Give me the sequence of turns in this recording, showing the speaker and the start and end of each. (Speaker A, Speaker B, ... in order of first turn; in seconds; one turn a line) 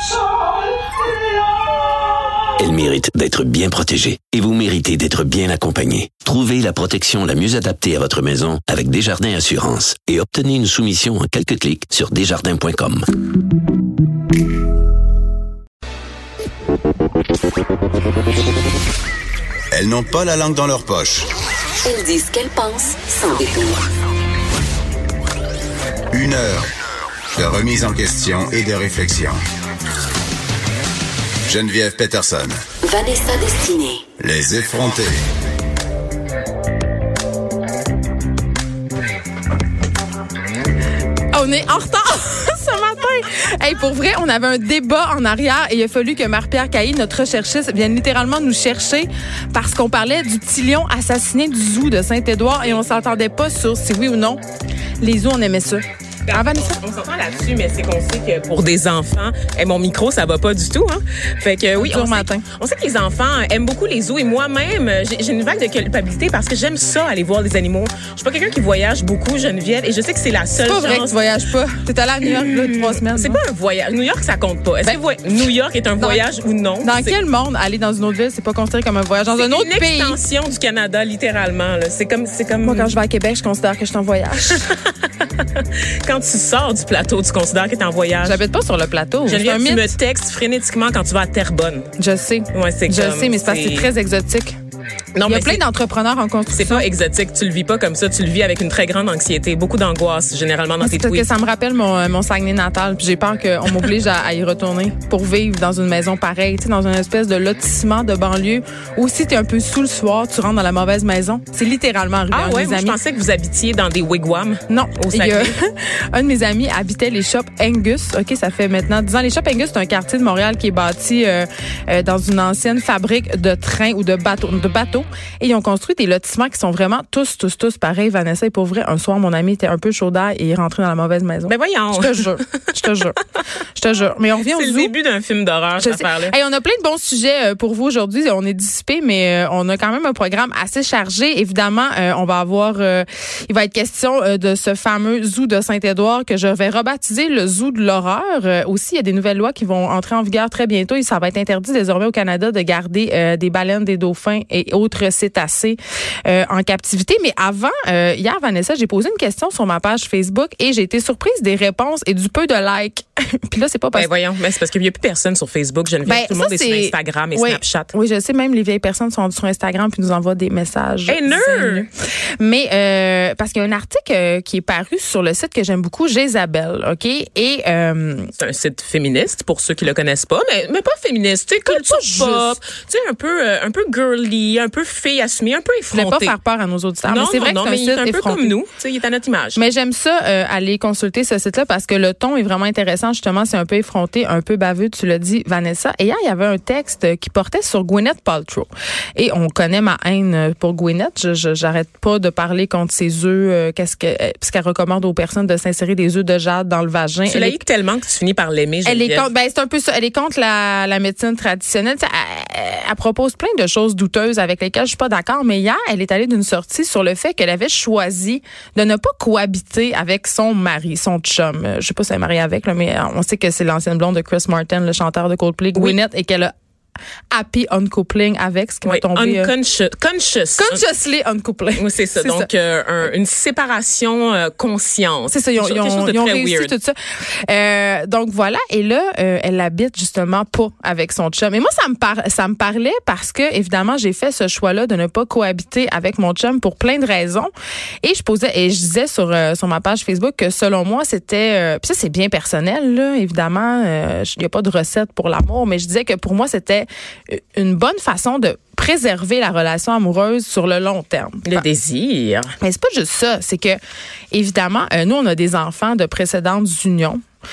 Speaker A: 2.6-13.1
Speaker B: 19.7-21.3
Speaker C: 21.9-23.8
Speaker B: 26.1-26.7
Speaker B: 27.3-29.4
Speaker B: 31.5-32.6
Speaker C: 32.8-34.0
Speaker B: 34.2-35.2
Speaker D: 41.3-54.4
Speaker D: 55.0-56.8
Speaker E: 56.3-71.2
Speaker D: 61.8-62.5
Speaker D: 70.6-73.4
Speaker E: 72.2-77.1
Speaker D: 76.0-76.2
Speaker D: 76.8-80.2
Speaker E: 79.4-82.9
Speaker D: 82.6-84.7
Speaker E: 84.5-88.4
Speaker D: 88.2-89.9
Speaker E: 89.3-91.9
Speaker D: 92.0-94.6
Speaker E: 92.5-93.9
Speaker E: 95.2-95.6
Speaker D: 95.3-96.9
Speaker E: 96.5-101.2
Speaker D: 100.8-113.0
Speaker E: 112.3-115.5
Speaker D: 114.7-133.2
Speaker E: 131.5-132.8
Speaker D: 133.8-134.9
Speaker E: 134.5-136.3
Speaker D: 135.8-164.1
Speaker E: 163.9-167.9
Speaker D: 166.1-178.3
Speaker E: 171.1-171.9
Speaker E: 178.4-186.3
Speaker D: 181.7-182.6
Speaker D: 185.9-188.5
Speaker E: 187.1-189.6
Speaker D: 189.6-207.6
Speaker E: 207.3-209.3
Speaker D: 208.8-226.5
Speaker D: 227.3-229.5
Speaker E: 228.8-230.8
Speaker D: 230.6-232.5
Speaker E: 231.8-236.7
Speaker D: 235.3-247.5
Speaker D: 248.0-261.6
Speaker E: 261.5-262.5
Speaker D: 262.6-263.8
Speaker D: 264.3-267.2